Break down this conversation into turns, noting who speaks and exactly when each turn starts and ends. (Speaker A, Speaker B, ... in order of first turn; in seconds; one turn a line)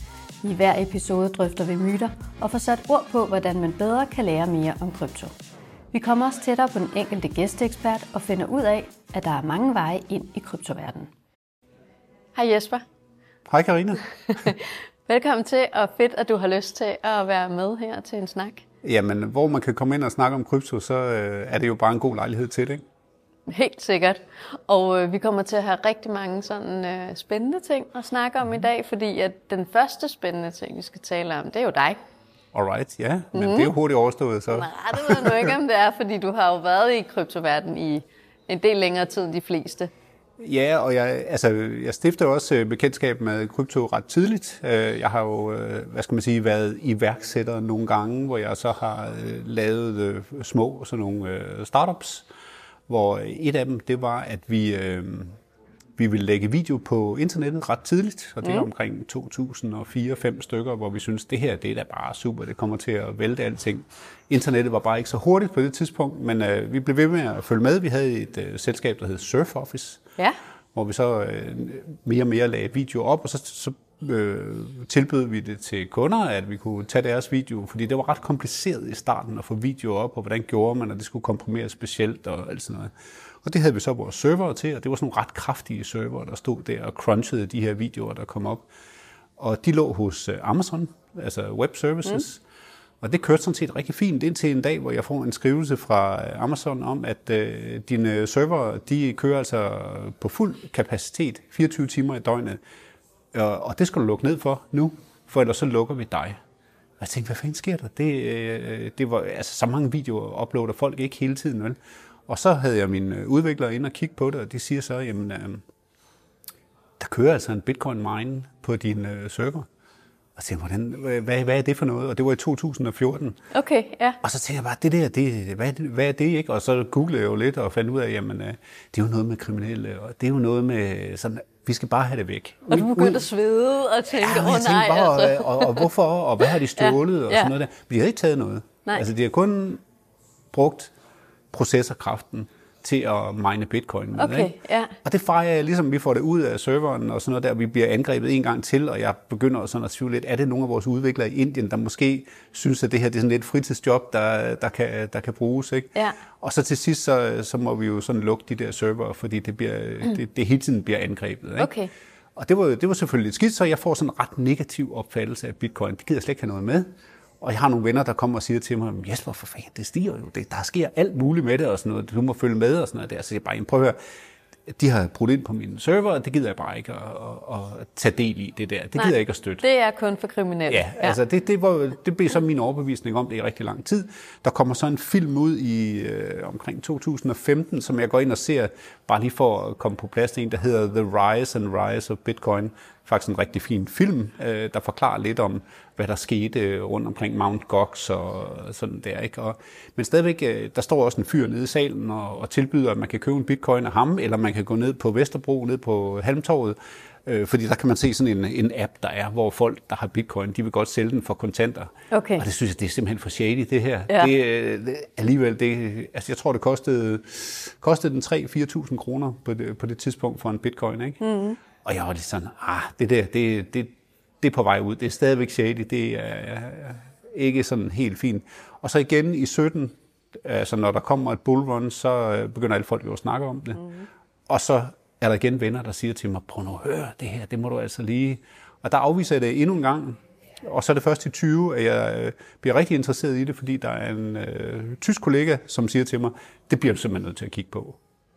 Speaker A: 0.4-5.3
Speaker A: 5.9-11.1
Speaker A: 12.3-12.8
Speaker B: 13.5-14.5
Speaker A: 14.3-18.6
Speaker B: 18.8-22.8
Speaker A: 23.5-32.0
Speaker B: 32.5-35.5
Speaker A: 33.3-33.7
Speaker A: 34.5-39.9
Speaker B: 40.4-52.3
Speaker B: 52.9-55.4
Speaker B: 56.0-70.0
Speaker B: 70.8-88.7
Speaker B: 89.4-92.4
Speaker B: 93.0-102.6
Speaker B: 103.3-106.4
Speaker B: 107.0-115.7
Speaker B: 117.0-119.7
Speaker B: 120.4-123.4
Speaker A: 123.5-124.2
Speaker B: 124.2-133.2
Speaker A: 132.7-135.9
Speaker B: 134.1-139.8
Speaker A: 136.8-137.5
Speaker B: 140.5-140.9
Speaker B: 141.5-161.7
Speaker A: 144.2-144.9
Speaker A: 161.6-161.9
Speaker B: 162.4-166.9
Speaker B: 167.4-174.0
Speaker B: 174.7-179.6
Speaker A: 179.0-181.2
Speaker B: 180.7-221.2
Speaker A: 212.1-212.4
Speaker A: 221.2-221.6
Speaker B: 221.8-233.9
Speaker B: 234.5-248.0